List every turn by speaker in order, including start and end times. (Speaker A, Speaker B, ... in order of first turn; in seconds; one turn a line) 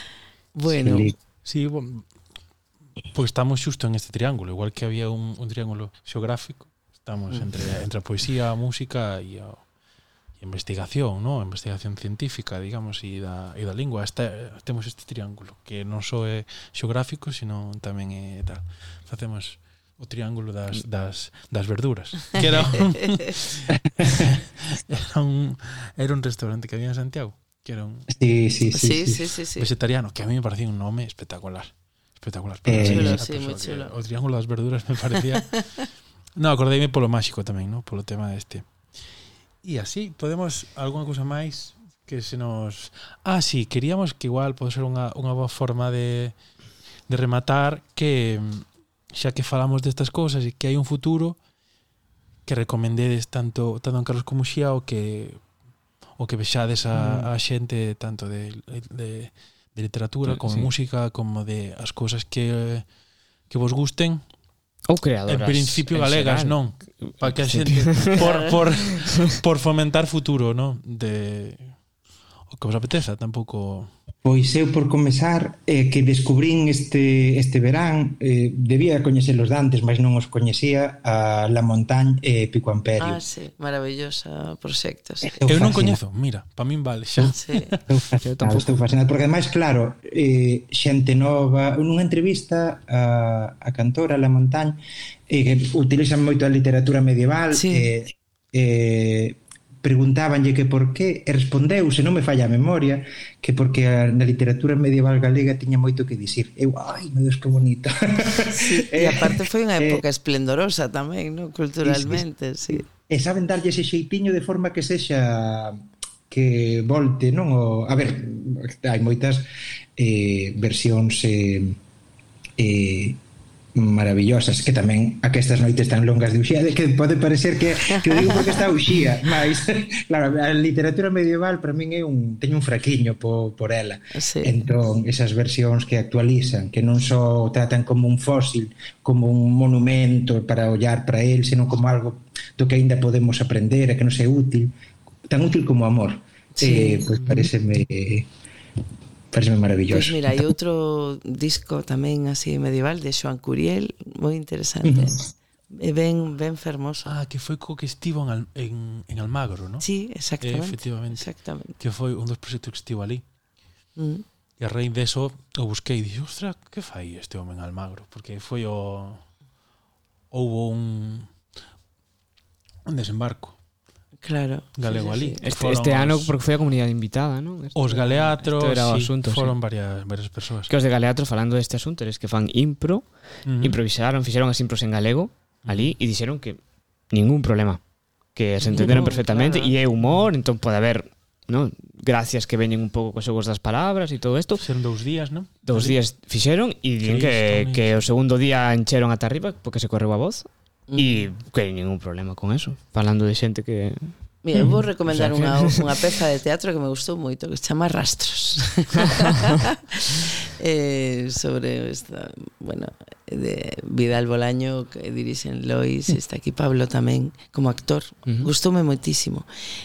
Speaker A: 0.5-1.1
Speaker B: 0.6-1.1
Speaker C: 1.4-2.1
Speaker C: 3.1-9.7
Speaker C: 10.4-28.1
Speaker A: 22.4-22.9
Speaker B: 24.0-24.3
Speaker B: 28.1-29.3
Speaker A: 28.7-29.7
Speaker C: 29.6-35.4
Speaker B: 32.6-33.2
Speaker A: 32.8-33.9
Speaker C: 36.4-38.6
Speaker C: 39.6-46.4
Speaker C: 47.1-51.4
Speaker C: 52.5-55.4
Speaker C: 56.2-62.9
Speaker D: 56.9-57.3
Speaker D: 60.2-60.7
Speaker C: 63.5-64.2
Speaker D: 64.9-68.2
Speaker C: 65.3-71.8
Speaker A: 68.2-68.5
Speaker C: 72.5-73.9
Speaker B: 74.2-83.2
Speaker A: 83.0-85.4
Speaker B: 85.3-86.0
Speaker C: 85.5-87.8
Speaker A: 87.3-87.8
Speaker B: 87.9-110.0
Speaker D: 88.2-88.8
Speaker A: 97.5-97.9
Speaker A: 108.5-112.8
Speaker B: 111.8-119.4
Speaker B: 120.0-121.8
Speaker B: 122.6-123.2
Speaker B: 123.7-144.7
Speaker A: 127.9-128.7
Speaker A: 134.1-134.6
Speaker B: 145.3-148.3
Speaker A: 146.6-147.1
Speaker B: 149.3-150.5
Speaker A: 149.9-157.1
Speaker B: 154.9-155.1
Speaker C: 157.1-159.8
Speaker A: 159.8-161.7
Speaker C: 160.4-163.2
Speaker A: 163.9-164.2
Speaker C: 164.6-169.3
Speaker C: 170.3-171.3
Speaker C: 172.9-173.6
Speaker A: 174.2-175.4
Speaker C: 174.8-176.3
Speaker D: 175.4-179.5
Speaker C: 177.7-180.7
Speaker D: 180.7-186.6
Speaker C: 183.4-183.8
Speaker C: 185.6-185.9
Speaker D: 187.1-187.8
Speaker D: 188.3-194.6
Speaker A: 188.6-189.8
Speaker C: 194.6-196.0
Speaker D: 195.6-204.4
Speaker C: 197.0-198.0
Speaker A: 200.9-201.3
Speaker A: 204.4-219.4
Speaker D: 205.1-205.8
Speaker D: 218.2-218.5